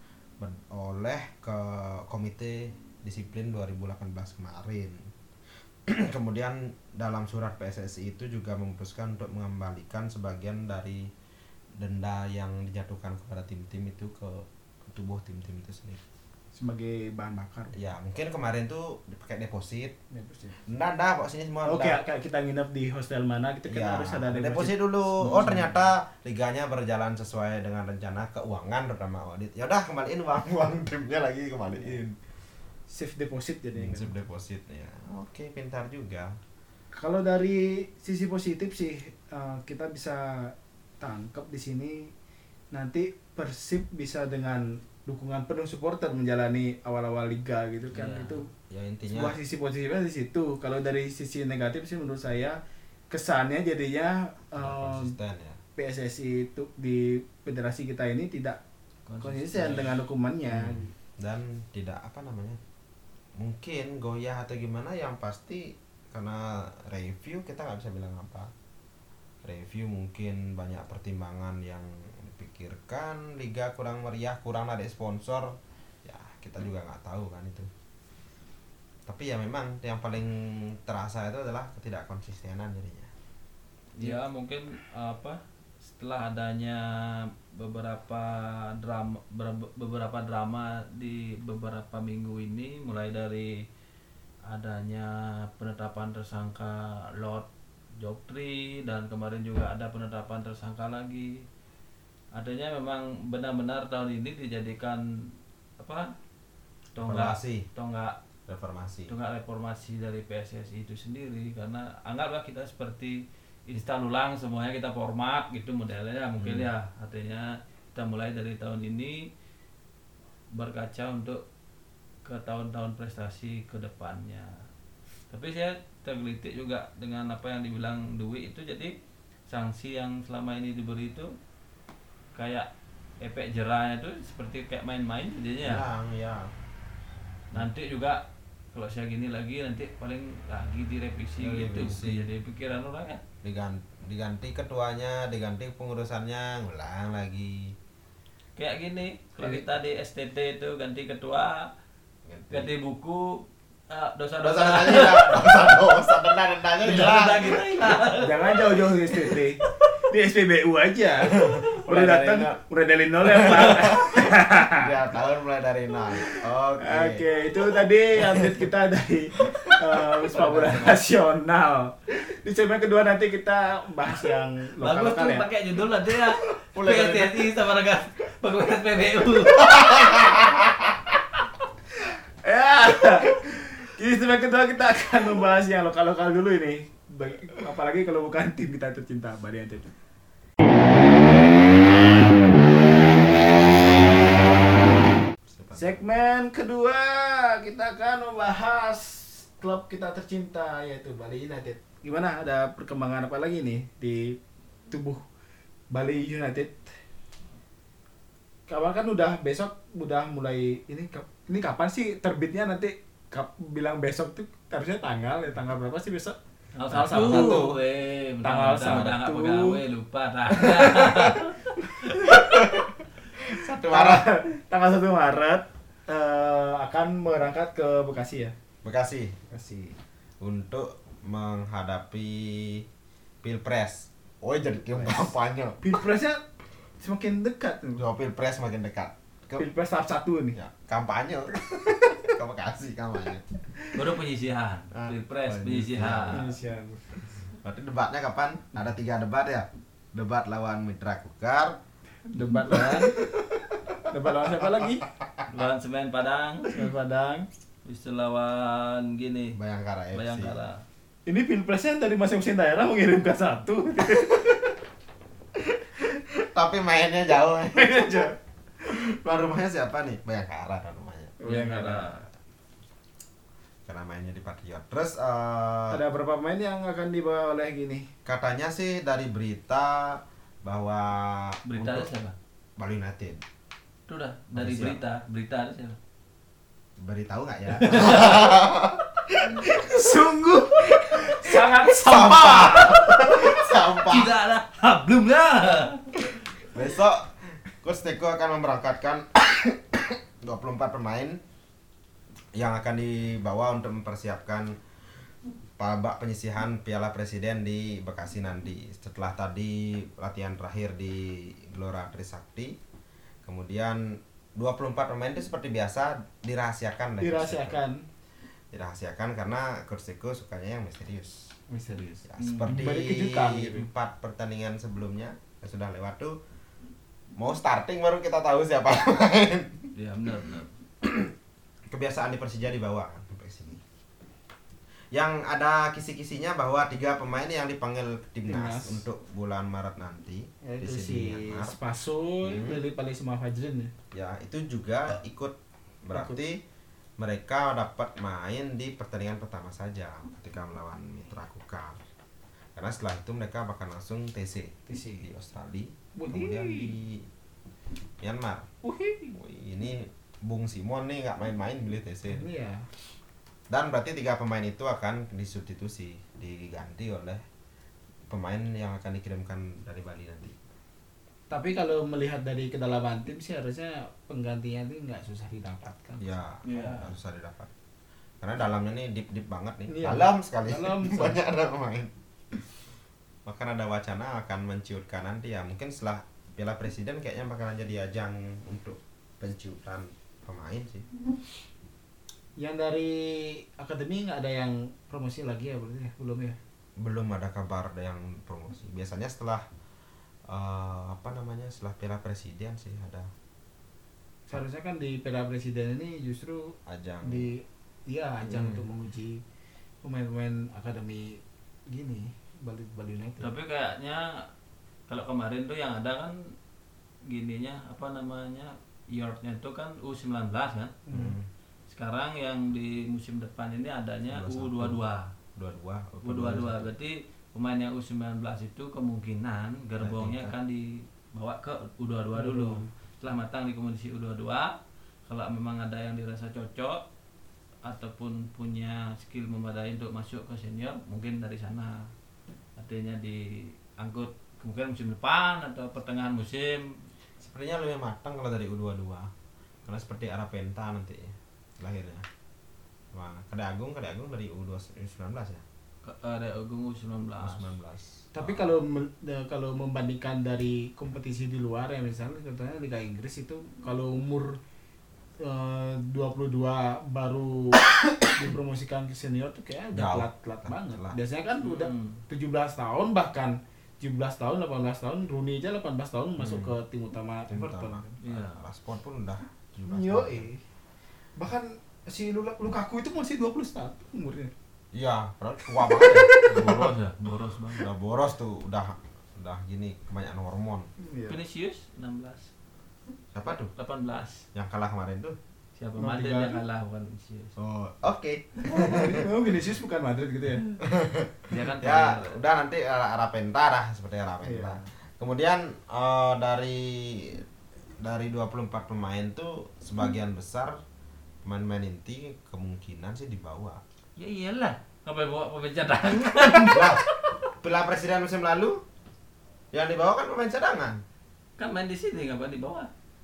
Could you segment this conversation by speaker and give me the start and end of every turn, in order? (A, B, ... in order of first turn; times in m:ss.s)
0:00.4-0:05.1 A
0:05.9-0:11.1 A
0:11.8-0:16.0 A
0:16.5-0:17.8 B
0:17.7-0:20.0 A
0:20.1-0:20.6 B
0:20.7-0:22.0 A
0:21.6-0:25.8 B
0:23.7-0:32.2 A
0:32.9-0:34.2 B
0:33.8-0:36.4 A
0:37.0-0:42.1 B
0:42.7-0:48.5 B
0:47.9-0:48.4 C
0:48.7-0:49.4 A
0:49.1-0:52.6 B
0:53.1-0:55.1 B
0:54.6-0:55.6 A
0:55.8-0:58.6 B
0:59.1-1:00.0 C
0:59.2-1:00.9 B
1:00.5-1:02.6 A
1:03.4-1:08.5 A
1:09.4-1:17.7 A
1:19.1-1:23.1 A
1:24.0-1:33.6 C
1:34.5-1:37.5 C
1:38.0-1:41.4 C
1:42.4-1:46.1 C
1:47.0-1:48.2 C
1:47.0-1:47.7 A
1:48.5-1:49.1 A
1:49.1-1:59.3 C
1:56.4-1:56.7 A
2:00.5-2:01.4 C
2:02.2-2:04.6 C
2:05.3-2:08.9 C
2:09.5-2:11.3 C
2:12.4-2:12.7 C
2:13.2-2:15.8 C
2:15.6-2:16.5 A
2:17.5-2:18.2 C
2:18.7-2:23.2 C
2:21.4-2:22.3 A
2:23.4-2:27.8 A
2:28.6-2:31.7 C
2:32.3-2:32.7 A
2:32.5-2:35.8 C
2:34.4-2:38.0 A
2:36.8-2:38.6 C
2:38.2-2:44.9 B
2:39.2-2:39.7 C
2:41.4-2:41.7 A
2:41.6-2:42.5 C
2:43.4-2:47.3 A
2:46.2-2:55.5 B
2:49.5-2:50.0 A
2:50.4-2:50.9 C
2:54.8-2:59.9 C
2:56.7-2:57.5 A
2:59.6-3:01.0 A
2:59.9-3:00.2 B
3:02.1-3:09.9 B
3:15.4-3:16.0 A
3:15.7-3:24.4 B
3:24.9-3:25.2 B
3:25.9-3:26.8 B
3:28.7-3:36.4 B
3:36.8-3:42.4 C
3:36.9-3:37.7 B
3:37.1-3:37.8 A
3:38.4-3:39.8 B
3:41.8-3:42.8 B
3:42.5-3:42.9 A
3:43.4-3:44.3 A
3:43.9-3:48.6 B
3:48.8-3:49.4 A
3:49.5-3:50.0 B
3:50.4-3:52.9 A
3:53.4-3:56.0 A
3:55.0-3:56.4 B
3:57.0-3:58.0 B
3:58.0-3:59.7 A
3:59.6-4:00.6 B
4:00.5-4:03.4 A
4:03.9-4:06.4 C
4:04.9-4:06.5 A
4:06.3-4:07.1 B
4:07.6-4:11.8 A
4:12.3-4:13.2 B
4:12.7-4:14.1 A
4:14.1-4:15.1 B
4:14.6-4:15.4 A
4:15.5-4:16.8 C
4:16.7-4:17.5 B
4:17.8-4:19.6 C
4:19.6-4:20.6 A
4:20.1-4:20.8 C
4:21.3-4:24.7 B
4:24.1-4:24.6 A
4:26.0-4:31.4 A
4:27.7-4:28.3 B
4:31.4-4:32.2 B
4:31.4-4:32.2 C
4:33.9-4:36.0 A
4:35.9-4:38.1 B
4:38.2-4:42.1 A
4:41.7-4:42.3 C
4:42.8-4:43.4 A
4:44.1-4:46.0 C
4:44.5-4:45.0 A
4:47.0-4:49.7 A
4:47.8-4:48.4 C
4:49.5-4:53.5 B
4:51.0-4:54.4 A
4:54.0-4:56.1 C
4:56.3-5:01.4 A
5:02.6-5:04.8 A
5:05.8-5:12.8 A
5:13.4-5:17.8 A
5:17.2-5:18.0 B
5:18.7-5:21.5 A
5:21.7-5:23.9 B
5:22.2-5:26.4 A
5:22.4-5:22.8 C
5:27.4-5:29.9 A
5:30.0-5:30.7 C
5:31.0-5:31.3 A
5:31.9-5:33.8 A
5:35.1-5:41.8 A
5:38.5-5:39.0 B
5:40.6-5:43.9 B
5:42.4-5:42.8 A
5:44.1-5:46.6 A
5:46.1-5:46.4 B
5:47.2-5:52.0 A
5:52.8-5:57.3 A
5:54.9-5:55.3 B
5:56.2-5:56.9 B
5:58.2-5:58.7 A
5:58.8-5:59.4 B
5:59.4-6:02.5 A
6:02.3-6:02.9 B
6:03.7-6:07.4 A
6:08.3-6:10.6 A
6:11.5-6:17.0 B
6:16.2-6:17.7 A
6:16.7-6:17.1 C
6:18.4-6:22.6 A
6:19.9-6:21.4 B
6:23.5-6:31.1 A
6:32.6-6:36.6 B
6:37.0-6:39.6 A
6:40.5-6:43.3 A
6:44.5-6:49.4 B
6:46.9-6:47.5 A
6:48.4-6:48.8 A
6:50.0-6:53.5 B
6:53.4-6:54.5 C
6:55.1-6:56.5 C
6:57.3-7:01.0 C
7:01.1-7:01.4 B
7:01.1-7:01.5 A
7:01.9-7:05.3 C
7:04.3-7:05.0 A
7:05.6-7:06.9 A
7:06.2-7:17.0 C
7:10.0-7:10.5 A
7:12.4-7:12.9 B
7:17.8-7:22.1 C
7:22.8-7:27.0 C
7:27.4-7:29.3 A
7:29.9-7:32.3 A
7:33.1-7:35.6 A
7:36.0-7:37.7 C
7:37.4-7:38.6 A
7:38.4-7:44.6 B
7:45.4-7:58.2 B
7:49.9-7:51.2 A
7:51.6-7:52.2 C
7:56.4-7:56.7 A
7:57.5-8:00.5 A
7:58.2-7:58.6 C
7:59.9-8:00.6 B
8:01.4-8:04.5 B
8:04.9-8:07.0 A
8:05.8-8:06.8 B
8:06.5-8:07.9 C
8:07.8-8:10.9 A
8:11.0-8:11.4 B
8:11.3-8:12.5 C
8:13.3-8:13.7 A
8:13.5-8:14.4 C
8:14.5-8:15.4 A
8:15.8-8:17.6 C
8:16.0-8:16.6 B
8:17.6-8:19.3 A
8:18.7-8:20.7 B
8:20.8-8:27.4 A
8:21.5-8:22.4 C
8:24.4-8:24.9 B
8:28.0-8:30.8 A
8:31.4-8:33.8 A
8:34.2-8:37.3 C
8:36.7-8:37.1 A
8:37.6-8:38.8 A
8:39.7-8:41.0 A
8:41.6-8:42.9 C